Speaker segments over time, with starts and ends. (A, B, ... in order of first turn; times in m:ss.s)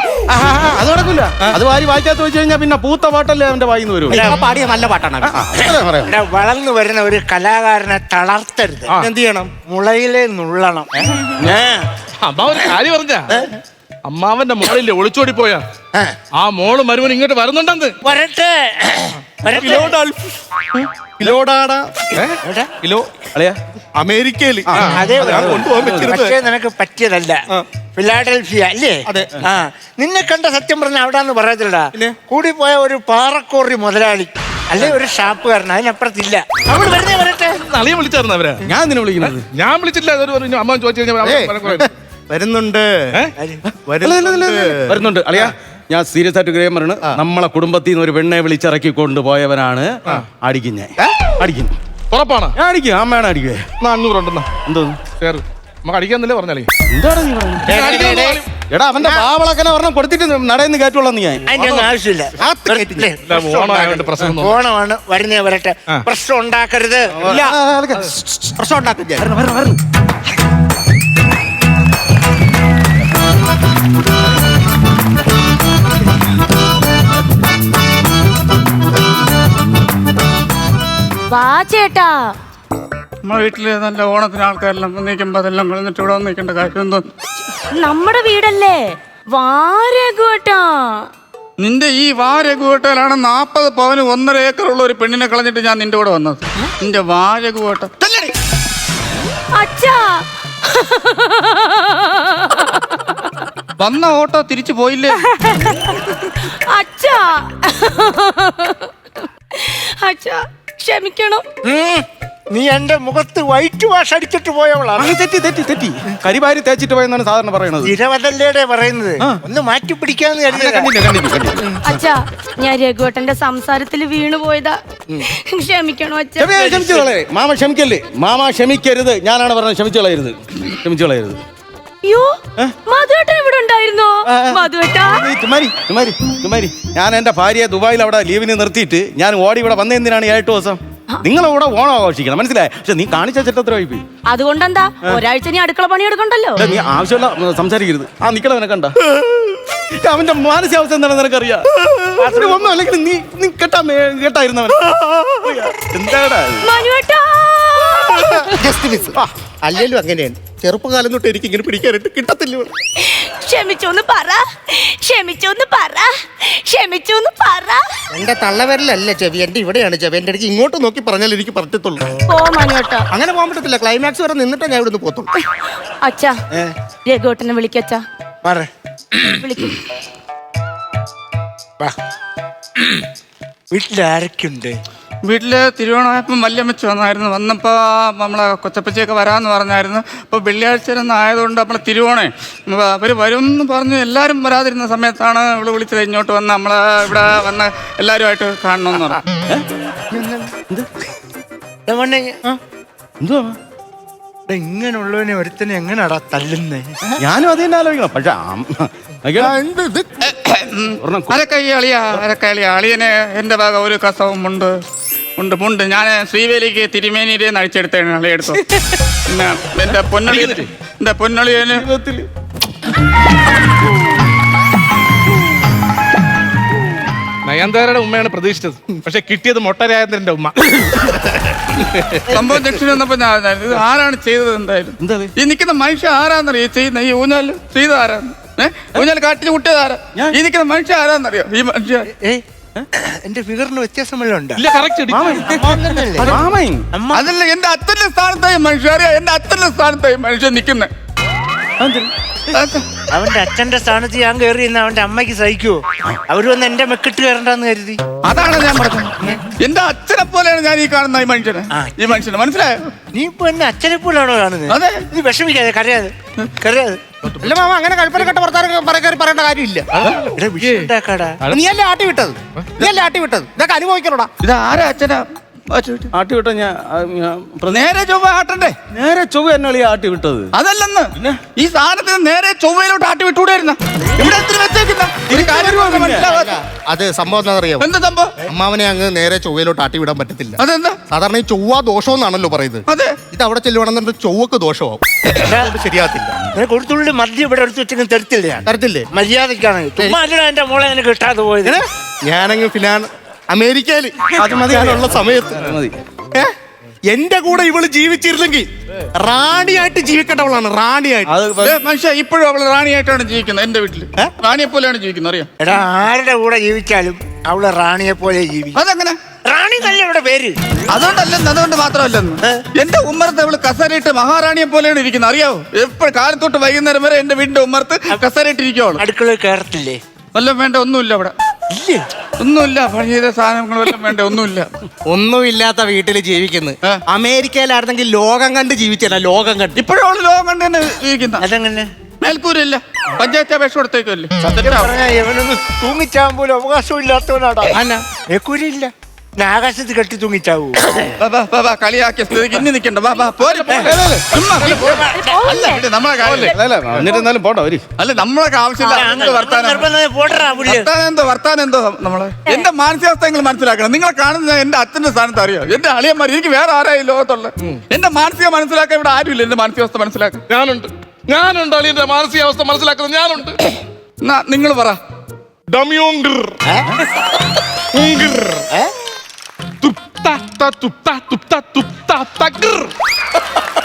0:00.3-0:04.3 A
0:04.1-0:04.4 B
0:04.1-0:05.4 C
0:05.2-0:06.2 A
0:05.6-0:08.9 B
0:09.0-0:09.5 C
0:09.7-0:11.9 B
0:11.3-0:11.6 A
0:12.2-0:13.4 D
0:14.1-0:15.6 D
0:16.4-0:18.0 D
0:18.0-0:20.0 B
0:19.5-0:19.9 D
0:20.8-0:22.1 C
0:22.4-0:22.7 B
0:22.8-0:23.1 C
0:23.3-0:23.6 A
0:24.0-0:24.8 C
0:24.7-0:26.2 A
0:24.7-0:26.4 D
0:24.9-0:27.4 B
0:28.0-0:37.6 B
0:29.1-0:29.4 C
0:37.7-0:38.6 D
0:38.6-0:39.4 A
0:39.5-0:41.9 D
0:41.2-0:43.1 C
0:43.4-0:43.6 B
0:43.9-0:45.5 C
0:44.0-0:51.7 A
0:51.0-0:51.3 C
0:52.1-0:52.6 D
0:52.6-0:53.7 A
0:53.8-0:54.5 D
0:54.7-0:55.0 A
0:55.2-0:56.7 D
0:56.9-0:58.1 A
0:57.6-0:58.4 D
0:57.7-0:58.4 B
0:57.8-0:58.4 C
0:58.6-1:01.5 A
1:01.5-1:07.4 B
1:01.5-1:01.9 D
1:02.4-1:03.2 C
1:03.3-1:04.6 D
1:07.2-1:08.0 A
1:07.2-1:09.3 C
1:09.2-1:09.8 A
1:21.3-1:22.3 E
1:23.2-1:27.1 F
1:27.7-1:31.1 E
1:31.6-1:38.2 F
1:39.6-1:43.3 E
1:43.8-1:45.2 F
1:45.2-1:51.4 E
1:51.6-1:55.2 B
1:55.0-1:57.9 A
1:57.8-2:00.9 B
2:00.5-2:01.8 A
2:01.8-2:07.0 E
2:06.4-2:11.4 A
2:12.0-2:15.2 E
2:14.3-2:24.0 A
2:24.3-2:26.6 E
2:26.6-2:29.0 A
2:30.0-2:31.7 A
2:32.2-2:32.7 B
2:32.2-2:34.8 A
2:35.4-2:36.7 A
2:36.6-2:38.6 E
2:38.6-2:39.2 B
2:39.6-2:42.7 C
2:43.0-2:47.8 E
2:48.1-2:52.0 C
2:52.3-2:53.1 E
2:53.1-2:55.3 C
2:56.0-2:56.4 E
2:57.1-2:58.0 E
2:58.4-2:58.7 B
2:59.2-2:59.8 E
3:02.8-3:03.0 B
3:03.7-3:04.8 B
3:05.2-3:19.2 F
3:20.1-3:20.5 B
3:21.9-3:22.4 B
3:23.2-3:23.6 A
3:24.5-3:27.0 B
3:27.2-3:29.5 A
3:29.4-3:30.2 C
3:30.2-3:34.8 F
3:31.0-3:31.4 A
3:35.4-3:38.6 F
3:39.3-3:41.9 F
3:40.3-3:40.7 A
3:41.7-3:42.3 A
3:47.5-3:51.5 D
3:52.3-4:02.1 F
3:55.0-3:55.3 A
4:02.1-4:02.4 B
4:03.0-4:04.6 B
4:04.6-4:05.4 D
4:05.1-4:06.9 A
4:05.4-4:06.4 B
4:06.9-4:07.3 B
4:07.1-4:10.9 F
4:11.8-4:12.1 A
4:12.5-4:12.9 F
4:13.1-4:18.0 B
4:18.2-4:22.9 F
4:23.1-4:27.0 B
4:24.7-4:25.0 F
4:27.2-4:27.5 D
4:27.4-4:29.9 C
4:29.9-4:30.9 D
4:30.3-4:31.4 B
4:31.5-4:34.3 C
4:34.4-4:36.1 F
4:36.1-4:37.9 A
4:37.7-4:38.8 F
4:38.9-4:40.5 A
4:40.6-4:46.6 F
4:41.2-4:41.4 A
4:45.3-4:46.3 A
4:46.3-4:47.9 C
4:47.8-4:48.4 F
4:48.5-4:50.6 C
4:50.6-4:51.0 F
4:51.1-4:56.4 C
4:52.9-4:53.2 F
4:55.4-4:55.7 B
4:56.5-5:01.8 B
4:58.7-4:59.1 C
5:01.6-5:05.7 C
5:04.4-5:06.0 A
5:07.1-5:11.3 C
5:11.3-5:11.8 A
5:11.6-5:15.5 F
5:15.6-5:18.8 B
5:18.8-5:19.2 F
5:19.4-5:20.6 B
5:20.9-5:29.0 F
5:29.0-5:30.0 B
5:30.4-5:31.3 F
5:31.7-5:32.0 B
5:32.4-5:34.7 F
5:35.1-5:39.8 C
5:39.8-5:41.4 F
5:41.4-5:41.9 B
5:42.2-5:44.9 F
5:44.6-5:51.1 B
5:47.7-5:48.0 C
5:51.2-5:56.6 F
5:53.4-5:54.0 D
5:53.7-5:54.0 B
5:53.8-5:54.2 A
5:54.6-5:55.2 B
5:55.2-5:55.8 E
5:56.2-5:56.5 D
5:56.4-5:57.8 A
5:58.0-5:59.9 F
5:58.8-6:00.9 B
6:00.6-6:10.4 F
6:10.5-6:13.6 D
6:14.2-6:15.0 F
6:15.7-6:16.6 D
6:17.9-6:18.7 D
6:19.8-6:22.9 D